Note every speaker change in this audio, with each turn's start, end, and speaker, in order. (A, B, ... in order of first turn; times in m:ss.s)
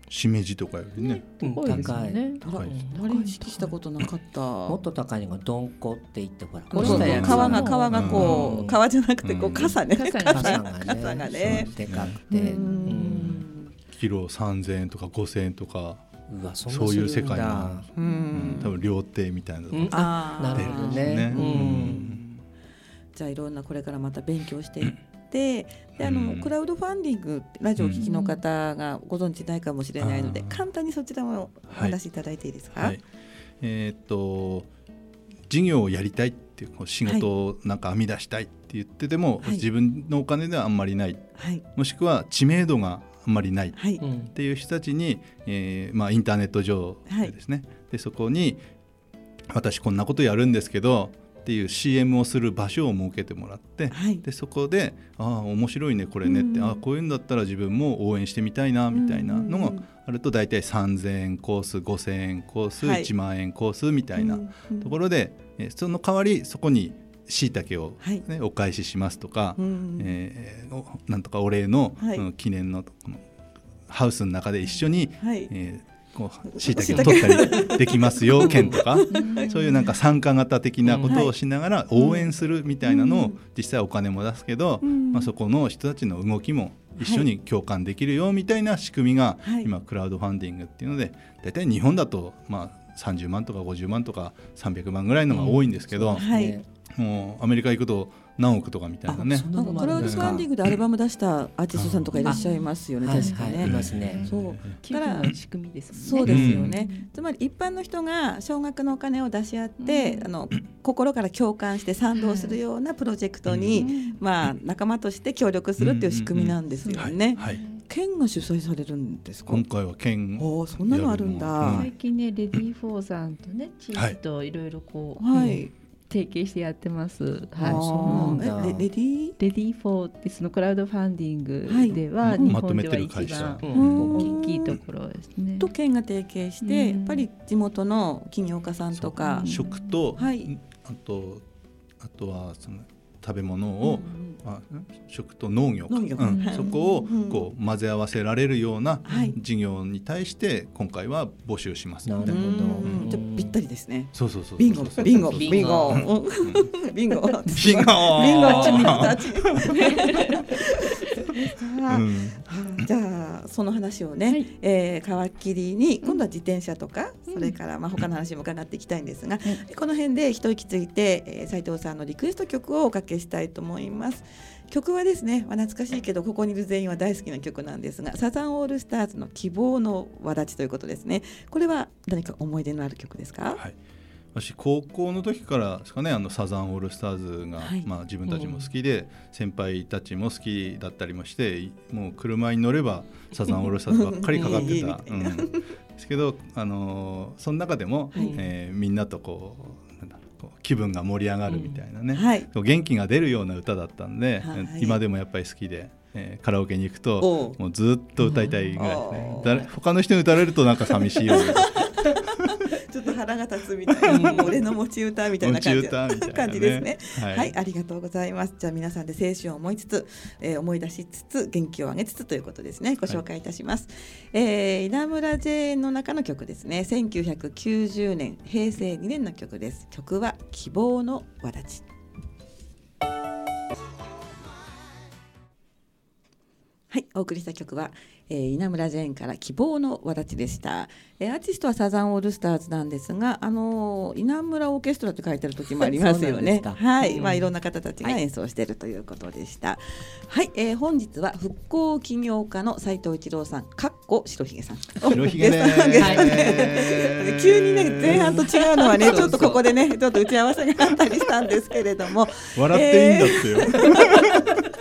0:00.1-0:02.0 A
0:01.0-0:03.7 B
0:01.4-0:03.0 C
0:02.4-0:04.8 D
0:04.7-0:08.8 C
0:06.7-0:11.8 D
0:06.7-0:08.6 B
0:06.8-0:08.6 A
0:09.2-0:09.8 A
0:09.9-0:11.1 B
0:10.3-0:13.4 C
0:11.4-0:12.2 A
0:12.3-0:13.4 B
0:12.4-0:13.7 D
0:13.9-0:16.0 A
0:16.3-0:17.8 C
0:16.7-0:22.2 A
0:17.9-0:18.7 D
0:19.7-0:22.0 C
0:19.9-0:22.4 D
0:23.1-0:33.0 D
0:26.0-0:26.5 A
0:27.8-0:28.0 A
0:28.0-0:28.4 B
0:30.0-0:30.6 A
0:31.7-0:32.0 A
0:32.7-0:33.0 A
0:33.6-0:34.7 A
0:35.5-0:48.6 A
0:41.4-0:41.6 D
0:43.8-0:44.0 D
0:44.0-0:44.3 C
0:47.1-0:47.3 D
0:49.5-1:13.2 A
0:53.9-0:54.2 D
0:56.2-0:56.8 D
0:58.9-0:59.8 D
1:02.8-1:03.1 D
1:04.2-1:04.9 D
1:09.6-1:10.2 D
1:13.9-1:36.2 A
1:15.2-1:15.5 D
1:16.5-1:19.5 D
1:18.4-1:18.8 C
1:19.1-1:19.9 B
1:20.8-1:21.2 C
1:21.0-1:21.4 D
1:21.9-1:22.3 D
1:22.8-1:23.4 D
1:24.8-1:25.3 D
1:27.0-1:27.2 D
1:29.4-1:29.7 D
1:35.3-1:36.6 C
1:36.1-1:36.6 D
1:36.9-1:40.5 A
1:39.1-1:40.4 C
1:39.3-1:45.3 D
1:41.7-1:42.2 A
1:42.1-1:47.1 B
1:43.0-1:44.3 C
1:43.6-1:44.8 A
1:45.9-1:59.6 D
1:46.2-1:46.7 A
1:49.8-1:50.3 B
1:52.2-1:52.6 B
1:53.4-1:53.8 A
1:53.7-1:54.2 B
1:55.8-1:57.6 A
1:56.8-1:57.8 B
1:59.4-2:01.9 A
2:00.4-2:01.8 D
2:01.7-2:08.8 B
2:05.2-2:05.7 D
2:07.6-2:08.8 C
2:07.6-2:09.4 D
2:09.4-2:15.7 B
2:11.6-2:12.6 D
2:12.2-2:14.1 A
2:13.6-2:14.5 C
2:13.7-2:14.8 D
2:15.6-2:19.6 D
2:16.6-2:17.3 B
2:18.9-2:21.4 A
2:19.2-2:20.2 B
2:20.2-2:20.5 D
2:22.0-2:33.2 A
2:23.8-2:24.4 D
2:25.9-2:27.4 D
2:26.2-2:26.7 B
2:29.0-2:29.4 D
2:32.0-2:33.5 C
2:32.2-3:03.6 D
2:34.1-2:36.7 A
2:35.1-2:36.1 C
2:37.5-2:39.9 A
2:38.4-2:38.7 C
2:39.7-2:40.2 B
2:41.9-2:42.4 A
2:47.3-2:47.5 B
3:04.3-3:32.1 A
3:07.6-3:07.9 D
3:08.3-3:08.6 C
3:13.9-3:15.6 D
3:14.4-3:14.7 C
3:18.2-3:18.5 C
3:21.5-3:21.8 C
3:22.1-3:22.5 D
3:24.4-3:25.0 D
3:27.2-3:27.6 D
3:28.2-3:28.5 C
3:28.8-3:29.6 D
3:31.1-3:51.8 D
3:34.1-3:34.5 C
3:35.4-3:37.5 A
3:56.9-4:24.5 D
4:05.8-4:07.5 C
4:15.0-4:18.4 A
4:15.9-4:16.7 C
4:18.0-4:19.6 C
4:22.5-4:24.4 A